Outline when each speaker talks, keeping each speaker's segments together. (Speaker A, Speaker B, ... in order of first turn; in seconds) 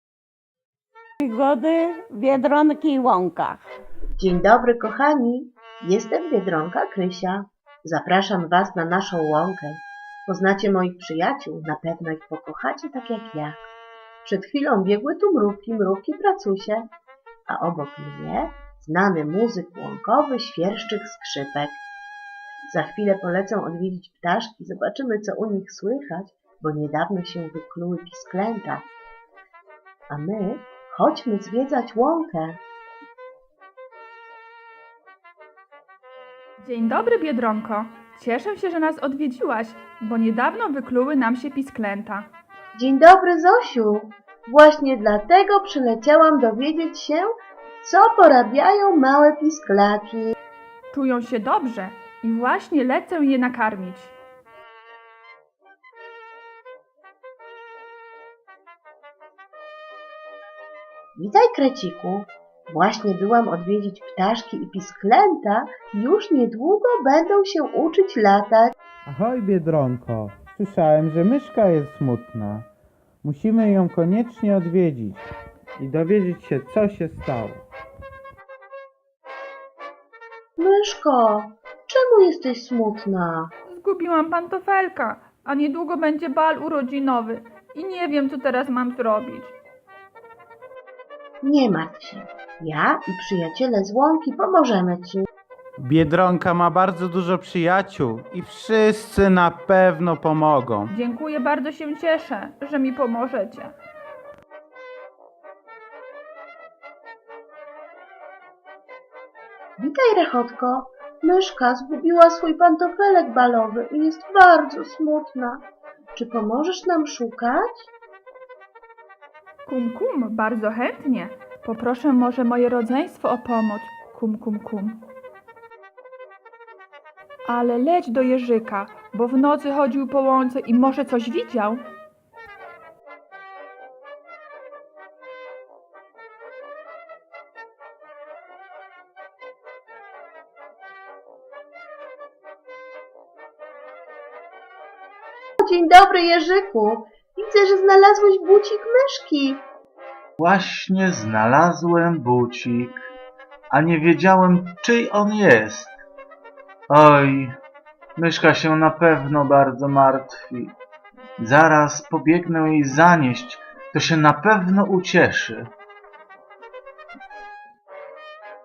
Speaker A: 1.3-3.6
Speaker B: 4.2-13.6, 14.2-16.9, 17.5-21.8, 22.7-28.9, 30.1-32.6, 42.8-47.3, 47.8-50.3, 61.2-68.7, 80.6-83.5, 91.4-95.3, 109.8-115.6, 116.2-117.9, 145.6-149.6
Speaker C: 36.6-42.3, 50.9-54.1, 83.7-89.5, 100.9-103.7, 119.7-125.0, 127.5-131.8
Speaker D: 69.1-72.7, 73.2-75.3, 75.8-77.6, 95.8-100.9
Speaker E: 150.4-153.0, 153.7-155.9, 156.9-157.6, 158.2-160.8, 161.4-165.7